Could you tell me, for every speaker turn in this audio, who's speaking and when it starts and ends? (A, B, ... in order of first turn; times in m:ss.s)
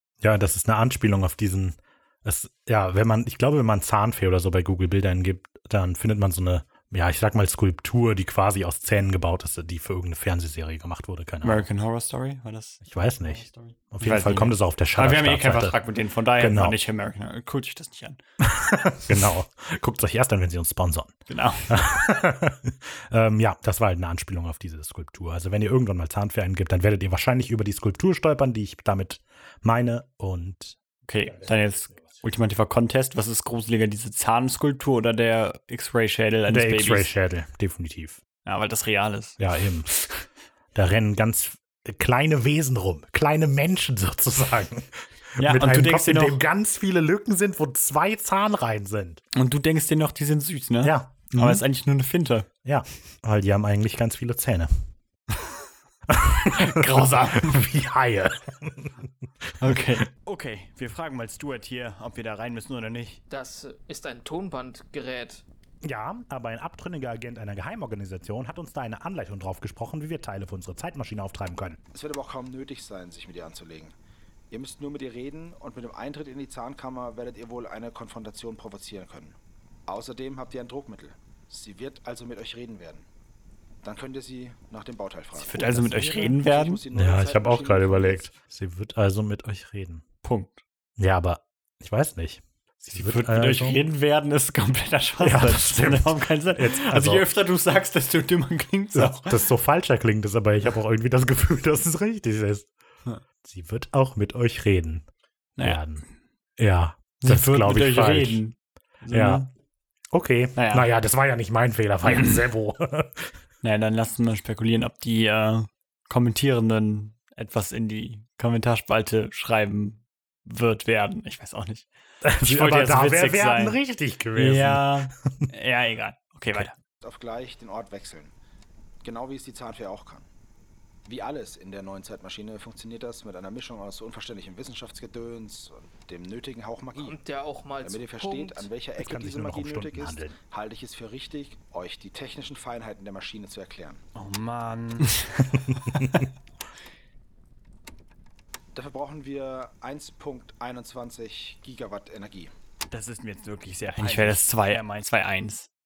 0:00.2-0:11.7 A
0:11.4-0:18.2 B
0:12.8-0:15.8 A
0:16.4-0:16.8 A
0:18.4-0:21.2 A
0:21.3-0:21.7 B
0:21.7-0:30.8 A
0:31.1-0:37.1 B
0:36.5-0:38.2 A
0:38.4-0:39.4 B
0:39.4-0:39.9 A
0:39.9-0:40.2 B
0:40.8-0:49.2 A
0:45.4-0:46.4 B
0:49.3-0:52.5 B
0:50.8-0:51.6 A
0:52.6-0:54.7 A
0:56.1-0:58.9 A
0:56.5-0:57.6 B
0:59.6-1:00.1 B
1:00.2-1:03.2 C
1:03.3-1:05.4 D
1:05.8-1:11.8 A
1:11.9-1:14.0 E
1:14.5-1:23.1 E
1:23.8-1:28.3 E
1:25.3-1:26.8 B
1:25.7-1:26.2 A
1:26.9-1:30.0 A
1:30.2-1:30.6 B
1:31.0-1:33.8 A
1:32.9-1:39.4 B
1:35.2-1:37.3 A
1:38.9-1:42.7 A
1:43.4-1:45.0 A
1:45.6-1:45.8 B
1:45.6-1:46.0 A
1:46.6-1:48.4 A
1:47.2-1:49.5 B
1:49.1-1:49.5 A
1:50.1-1:53.3 A
1:50.6-1:50.9 B
1:53.6-2:01.9 B
2:02.2-2:05.0 A
2:02.4-2:03.8 B
2:04.3-2:06.7 B
2:07.0-2:08.4 E
2:09.0-2:10.3 E
2:11.1-2:17.2 E
2:17.0-2:18.8 D
2:17.8-2:24.0 E
2:19.0-2:20.4 A
2:24.2-2:25.2 C
2:26.0-2:26.2 A
2:28.7-2:32.5 E
2:32.9-2:34.4 C
2:34.0-2:35.7 B